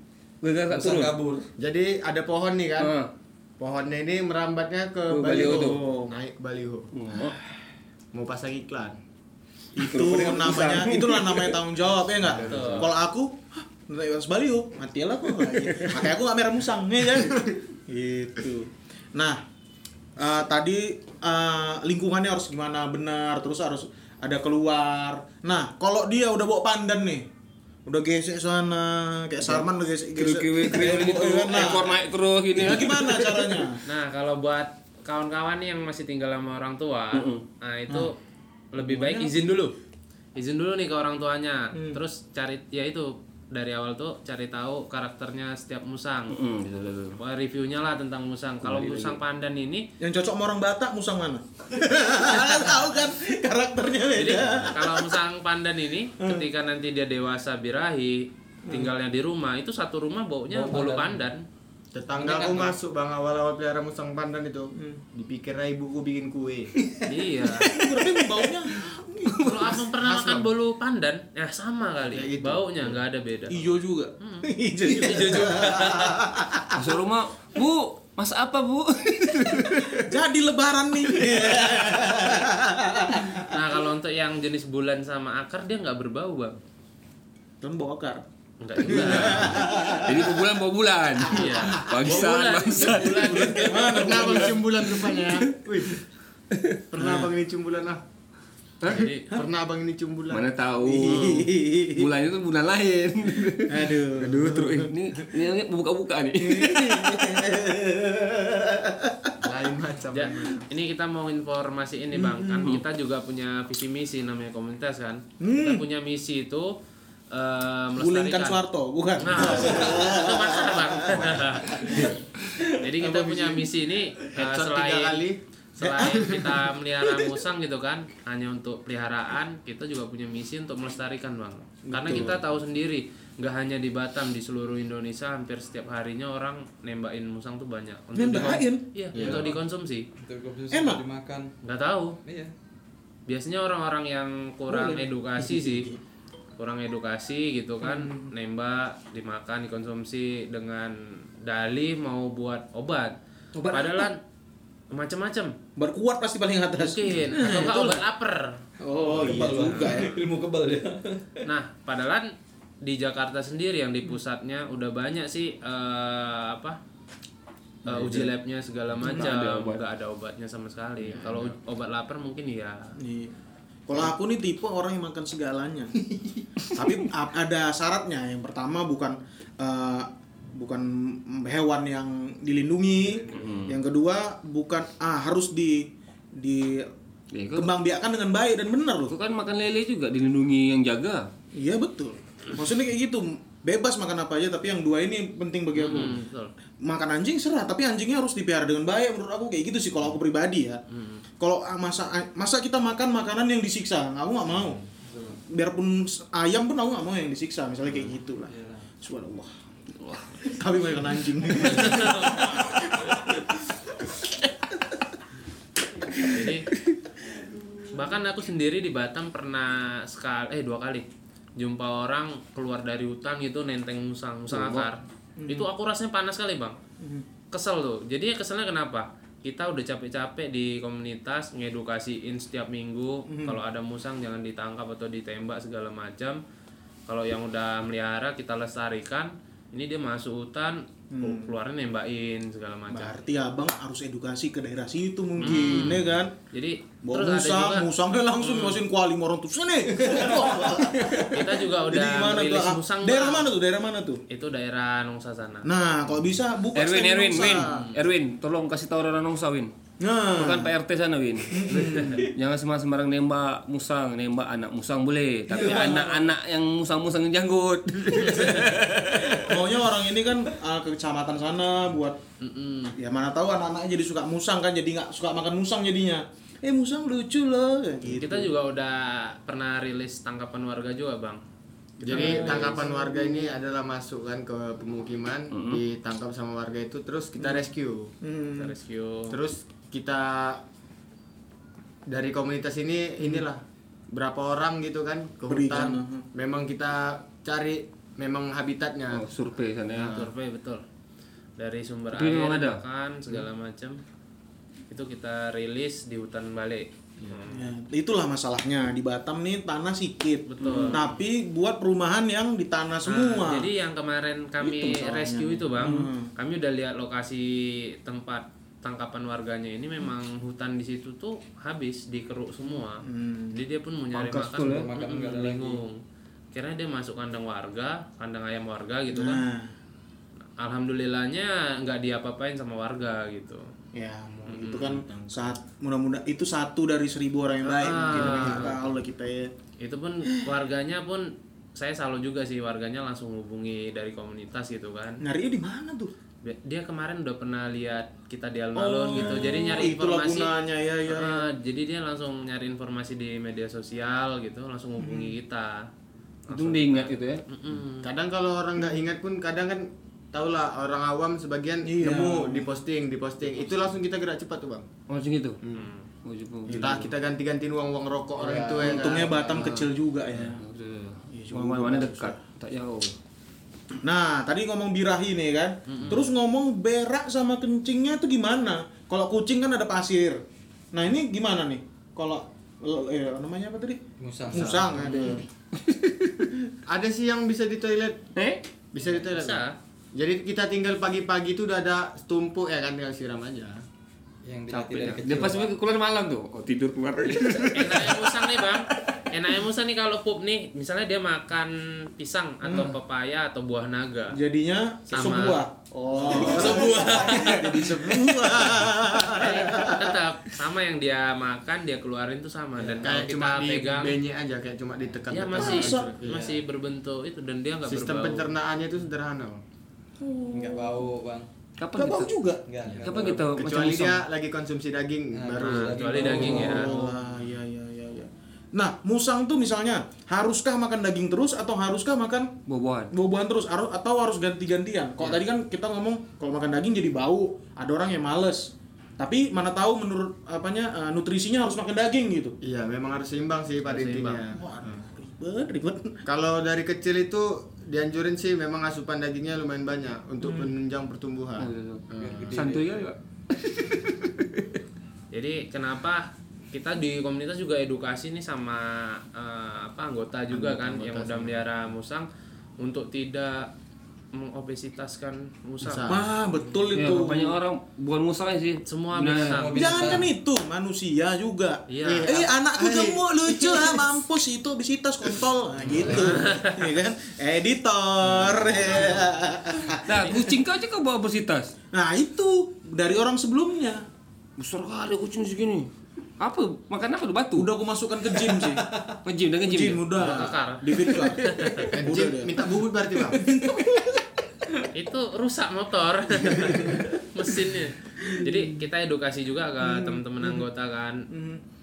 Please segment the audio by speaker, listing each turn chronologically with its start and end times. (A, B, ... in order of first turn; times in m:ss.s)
0:00.4-0:01.2 A
0:00.7-0:01.5 B
0:01.6-0:02.9 C
0:02.8-0:03.1 A
0:03.6-0:06.9 C
0:05.1-0:05.8 A
0:05.3-0:06.1 D
0:06.9-0:07.4 A
0:08.1-0:09.0 C
0:09.8-0:19.4 D
0:09.8-0:11.6 A
0:12.2-0:12.9 A
0:12.4-0:12.9 E
0:15.5-0:16.0 A
0:20.2-0:27.3 D
0:27.9-0:32.0 D
0:29.4-0:33.7 A
0:32.5-0:33.8 D
0:33.8-0:38.2 E
0:37.1-0:37.4 A
0:38.7-0:39.8 E
0:38.8-0:39.3 D
0:40.4-0:46.4 E
0:46.3-0:47.2 A
0:47.2-0:49.9 E
0:48.6-0:49.2 A
0:50.0-0:55.2 D
0:54.1-1:01.4 E
0:56.2-0:56.5 D
0:58.7-0:58.9 D
1:00.5-1:01.2 B
1:01.9-1:06.7 C
1:02.2-1:02.6 B
1:07.0-1:07.7 E
1:07.4-1:09.8 D
1:09.3-1:09.7 A
1:09.4-1:16.2 E
1:10.0-1:10.5 C
1:12.1-1:13.0 C
1:13.5-1:16.9 D
1:16.7-1:20.1 A
1:19.9-1:23.7 D
1:21.3-1:21.7 A
1:23.5-1:26.6 E
1:27.6-1:28.2 D
1:28.6-1:29.7 E
1:28.8-1:30.5 D
1:28.9-1:36.0 A
1:31.3-1:34.1 E
1:31.4-1:32.1 D
1:33.4-1:34.6 D
1:33.9-1:36.0 C
1:36.5-1:36.8 A
1:36.9-1:38.0 C
1:37.0-1:37.3 D
1:38.8-1:39.1 A
1:38.8-1:39.3 E
1:38.9-1:40.5 C
1:40.3-1:47.5 A
1:40.8-1:42.1 D
1:41.0-1:41.4 E
1:43.7-1:45.4 D
1:46.4-1:49.4 D
1:49.4-1:50.7 C
1:50.1-1:56.7 E
1:52.1-1:52.7 D
1:55.4-1:55.8 D
1:57.3-1:58.6 E
1:58.0-2:03.7 D
1:59.2-2:02.2 E
2:02.8-2:05.2 E
2:04.3-2:06.5 C
2:05.8-2:20.1 E
2:05.8-2:07.4 D
2:11.9-2:12.4 D
2:18.2-2:19.5 D
2:19.2-2:19.5 C
2:19.2-2:19.4 B
2:20.2-2:21.5 B
2:20.7-2:21.0 D
2:21.6-2:22.2 E
2:22.2-2:22.5 B
2:23.3-2:25.9 E
2:24.7-2:26.0 D
2:26.6-2:33.2 E
2:27.8-2:28.3 D
2:33.6-2:33.8 D
2:33.7-2:34.2 E
2:34.9-2:35.6 E
2:35.8-2:38.0 D
2:36.8-2:38.6 E
2:38.8-2:40.2 D
2:39.1-2:41.4 B
2:41.4-2:42.3 E
2:42.8-2:46.8 E
2:47.8-2:48.3 A
2:47.9-2:52.9 E
2:49.0-2:49.8 A
2:53.0-2:53.4 D
2:53.9-2:56.0 D
2:56.8-3:06.9 D
3:03.1-3:03.3 B
3:03.3-3:03.8 A
3:07.3-3:07.7 A
3:07.6-3:09.1 D
3:09.1-3:11.3 A
3:11.6-3:16.2 D
3:15.8-3:16.5 E
3:16.8-3:20.8 D
3:20.9-3:21.2 E
3:21.4-3:24.8 D
3:25.0-3:25.4 B
3:25.5-3:29.5 D
3:28.5-3:28.9 B
3:30.0-3:30.4 A
3:30.4-3:33.4 D
3:31.6-3:32.5 E
3:36.2-3:36.7 E
3:37.9-3:41.1 E
3:41.6-3:46.8 E
3:44.5-3:44.9 A
3:45.4-3:45.7 D
3:47.5-3:56.4 E
3:53.3-3:53.6 D
3:57.1-4:03.2 E
4:01.1-4:01.5 D
4:02.9-4:06.3 D
4:05.4-4:08.8 E
4:07.0-4:14.2 D
4:11.2-4:13.5 E
4:14.3-4:15.7 E
4:15.6-4:17.8 D
4:16.7-4:19.7 A
4:17.7-4:18.0 E
4:20.0-4:20.7 D
4:20.3-4:29.6 A
4:21.5-4:22.3 D
4:21.7-4:22.2 E
4:25.6-4:26.1 E
4:25.6-4:26.1 D
4:29.3-4:32.2 D
4:32.4-4:33.0 E
4:33.0-4:38.6 D
4:38.1-4:41.4 E
4:42.0-4:48.1 C
4:42.1-4:43.5 D
4:42.1-4:42.9 E
4:45.5-4:45.8 A
4:48.2-4:48.8 D
4:48.6-4:49.4 E
4:49.3-4:50.6 C
4:52.1-4:59.3 C
4:55.5-4:56.3 D
4:59.1-5:00.3 A
4:59.9-5:00.3 C
5:00.0-5:00.8 E
5:01.6-5:04.0 E
5:02.1-5:02.8 A
5:04.9-5:07.7 E
5:07.2-5:07.5 C
5:07.5-5:13.7 D
5:10.5-5:11.0 E
5:13.1-5:26.0 E
5:14.6-5:16.3 D
5:23.0-5:23.6 D
5:24.1-5:24.9 A
5:24.6-5:25.8 B
5:26.5-5:29.4 E
5:29.1-5:29.8 D
5:30.6-5:33.7 E
5:33.9-5:39.5 D
5:34.5-5:35.2 E
5:37.7-5:38.9 E
5:39.8-5:45.2 E
5:45.2-5:46.1 D
5:46.4-5:50.6 E
5:48.8-5:51.5 D
5:49.1-5:49.7 C
5:51.1-5:55.9 E
5:55.0-5:55.4 D
5:56.5-5:58.1 E
5:56.5-5:57.4 A
5:58.0-6:04.9 C
6:01.8-6:02.7 D
6:05.1-6:05.6 A
6:05.8-6:06.1 E
6:06.2-6:07.1 A
6:06.7-6:09.9 C
6:08.7-6:10.6 D
6:10.3-6:13.2 A
6:11.3-6:12.4 D
6:14.0-6:20.4 D
6:15.9-6:16.3 E
6:20.9-6:25.5 D
6:24.2-6:25.1 B
6:25.7-6:26.5 A
6:26.9-6:28.3 C
6:28.4-6:28.6 A
6:28.9-6:29.6 C
6:29.2-6:29.8 E
6:30.2-6:33.8 C
6:34.4-6:35.7 B
6:34.7-6:38.5 A
6:37.3-6:44.4 E
6:42.6-6:43.0 D
6:44.4-6:50.2 D
6:45.1-6:45.7 E
6:46.2-6:46.7 B
6:46.3-6:48.7 E
6:49.3-6:54.2 E
6:52.8-6:53.2 B
6:53.0-6:56.4 C
6:55.3-6:58.5 E
6:55.6-6:56.2 D
6:56.2-6:56.6 B
6:57.9-6:59.6 C
7:00.2-7:01.0 D
7:00.5-7:01.5 B
7:01.8-7:02.3 A
7:02.0-7:02.6 D
7:02.7-7:03.4 B
7:03.0-7:04.2 A
7:03.5-7:07.1 C
7:05.3-7:07.0 B
7:05.6-7:06.9 E
7:06.2-7:12.6 D
7:12.7-7:13.1 A
7:13.1-7:22.6 D
7:22.6-7:25.0 C
7:23.8-7:24.4 E
7:24.5-7:26.2 D
7:26.3-7:32.7 C
7:30.4-7:30.7 D
7:31.6-7:34.6 A
7:32.2-7:32.8 B
7:35.3-7:42.3 E
7:40.5-7:41.7 C
7:42.8-7:43.7 E
7:44.3-7:46.2 E
7:45.8-7:46.3 C
7:46.1-7:47.6 D
7:46.9-7:49.8 A
7:48.8-7:50.2 E
7:49.5-7:50.3 B
7:49.8-8:00.6 D
7:51.9-7:52.4 E
7:52.0-7:54.1 C
7:55.9-7:56.4 B
7:56.3-7:56.9 E
8:00.0-8:01.7 A
8:01.9-8:04.0 D
8:04.6-8:07.7 A
8:07.6-8:08.9 D
8:08.4-8:09.1 B
8:09.2-8:10.3 A
8:09.6-8:11.4 D
8:10.2-8:12.0 E
8:11.0-8:11.9 A
8:11.9-8:13.4 C
8:12.0-8:12.7 D
8:13.2-8:14.2 D
8:14.9-8:21.3 E
8:16.6-8:17.0 D
8:18.2-8:18.6 D
8:19.8-8:20.7 D
8:21.3-8:21.6 D